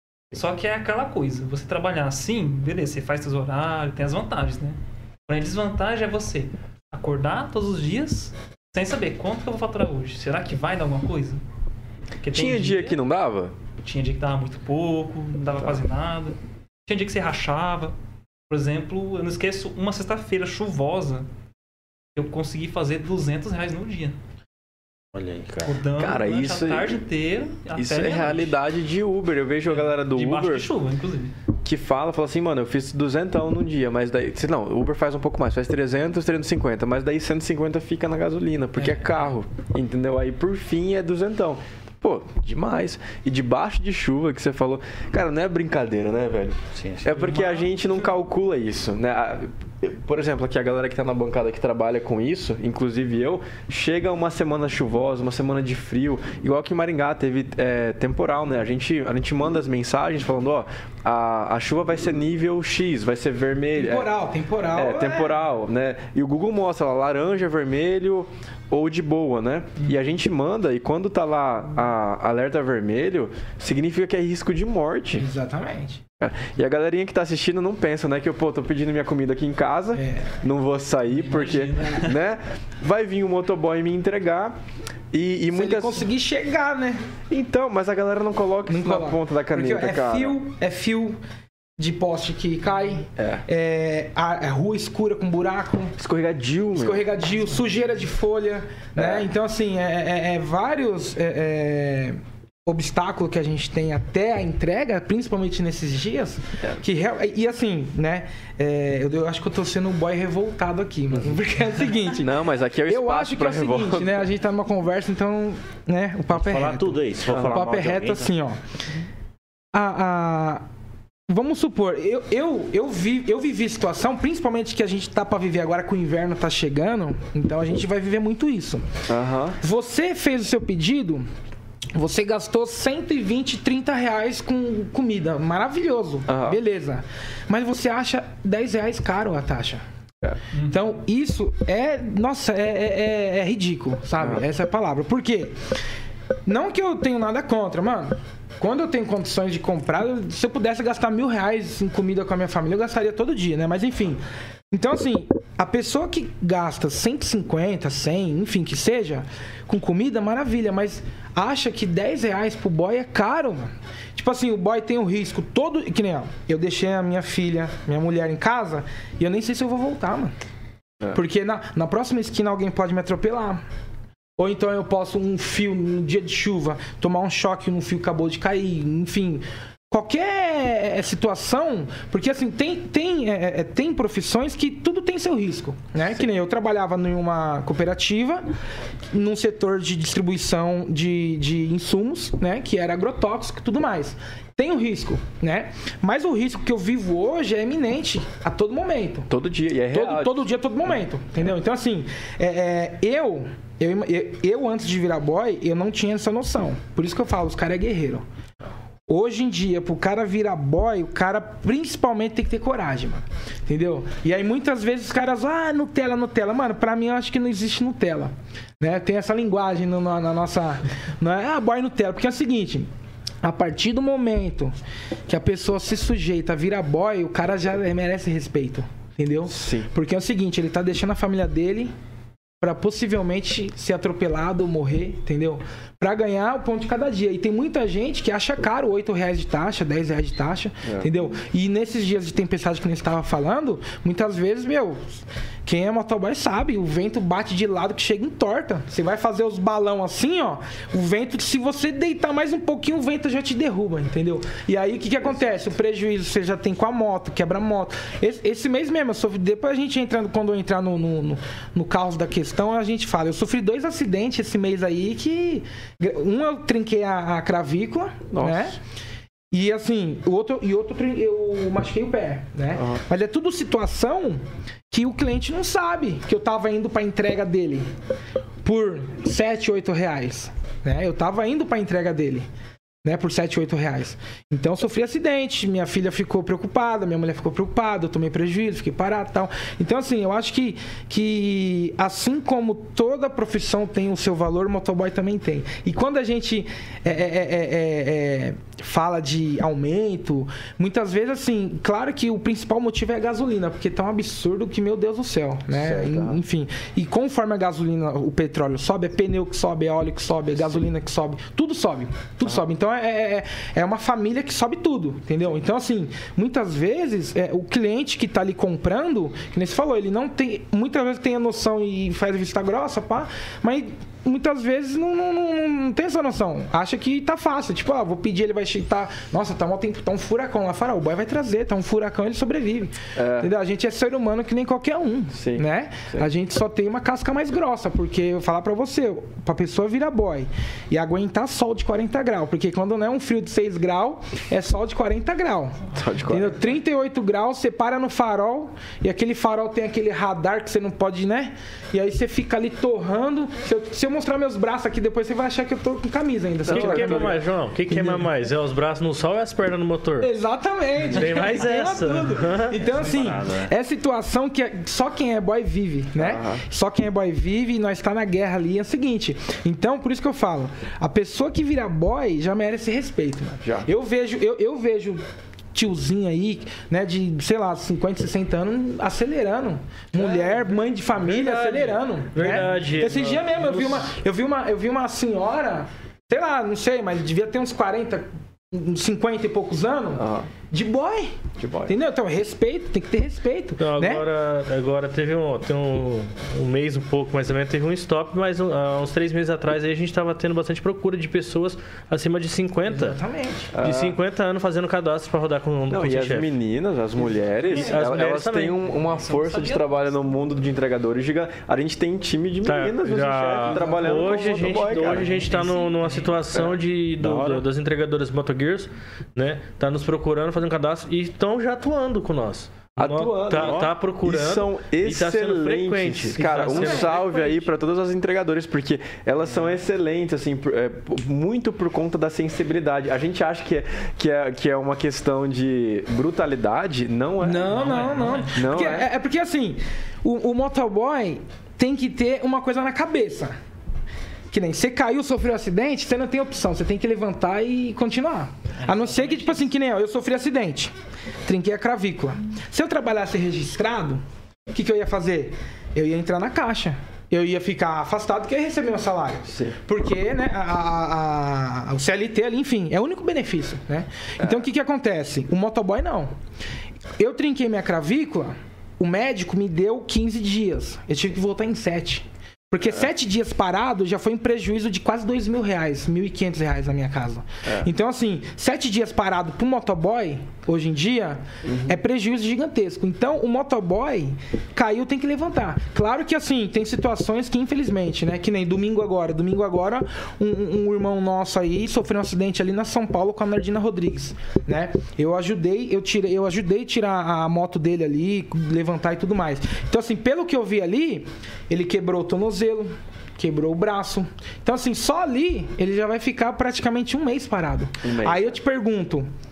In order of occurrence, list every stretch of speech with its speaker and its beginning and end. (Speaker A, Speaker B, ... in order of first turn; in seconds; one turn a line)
Speaker A: 0.3-11.4
Speaker A: 12.2-13.0
Speaker B: 12.3-13.5
Speaker A: 13.8-17.9
Speaker A: 18.5-21.3
Speaker A: 22.1-24.2
Speaker C: 25.1-25.8
Speaker A: 25.6-28.6
Speaker B: 26.0-27.0
Speaker B: 27.7-30.7
Speaker A: 29.7-31.3
Speaker B: 31.6-64.1
Speaker C: 46.7-47.2
Speaker A: 47.1-47.9
Speaker D: 63.7-65.4
Speaker B: 64.7-75.2
Speaker D: 75.2-76.0
Speaker B: 76.2-84.5
Speaker D: 79.9-80.4
Speaker A: 81.1-82.2
Speaker B: 85.1-86.1
Speaker D: 85.5-87.1
Speaker B: 87.3-90.4
Speaker D: 88.7-91.2
Speaker D: 91.8-95.9
Speaker B: 93.2-93.4
Speaker B: 96.0-97.0
Speaker D: 96.7-112.3
Speaker B: 99.0-99.3
Speaker B: 112.2-114.2
Speaker D: 112.9-118.6
Speaker C: 116.3-118.3
Speaker B: 117.3-117.6
Speaker D: 119.7-120.6
Speaker D: 121.3-129.0
Speaker B: 129.1-129.6
Speaker D: 129.6-131.3
Speaker D: 131.9-139.8
Speaker B: 136.3-136.6
Speaker A: 140.5-140.8
Speaker D: 140.7-145.6
Speaker D: 146.4-170.3
Speaker D: 171.1-173.6
Speaker D: 174.4-188.4
Speaker D: 189.1-199.3
Speaker B: 199.3-200.5
Speaker D: 199.9-208.2
Speaker D: 209.1-222.9
Speaker D: 223.4-224.7
Speaker D: 225.3-231.9
Speaker B: 229.5-229.9
Speaker D: 232.6-268.8
Speaker B: 255.2-255.6
Speaker B: 268.3-268.8
Speaker D: 269.5-277.9
Speaker B: 272.7-273.0
Speaker D: 278.6-282.5
Speaker D: 283.0-357.3
Speaker B: 305.7-306.4
Speaker B: 333.1-333.5
Speaker B: 335.3-336.3
Speaker B: 345.9-346.6
Speaker B: 356.6-358.3
Speaker E: 356.7-360.3
Speaker D: 360.2-375.2
Speaker E: 361.1-362.8
Speaker C: 362.9-363.7
Speaker B: 366.2-366.6
Speaker B: 373.6-373.9
Speaker D: 375.7-394.2
Speaker B: 380.1-380.6
Speaker E: 381.2-384.1
Speaker B: 390.2-390.5
Speaker B: 391.6-391.9
Speaker E: 393.8-403.2
Speaker D: 402.9-403.7
Speaker B: 403.7-404.2
Speaker E: 403.8-406.5
Speaker B: 405.9-415.4
Speaker D: 407.6-408.1
Speaker E: 407.7-408.8
Speaker A: 408.9-410.0
Speaker E: 412.6-427.5
Speaker D: 413.6-414.6
Speaker A: 415.0-416.4
Speaker B: 416.5-416.8
Speaker C: 417.2-417.7
Speaker B: 423.0-439.1
Speaker C: 423.5-423.9
Speaker D: 426.7-427.1
Speaker A: 427.1-427.6
Speaker D: 437.4-443.5
Speaker A: 437.7-438.6
Speaker D: 444.5-450.9
Speaker A: 448.8-449.7
Speaker D: 451.4-466.3
Speaker B: 459.4-459.8
Speaker D: 467.2-509.3
Speaker B: 481.6-482.0
Speaker B: 508.0-508.6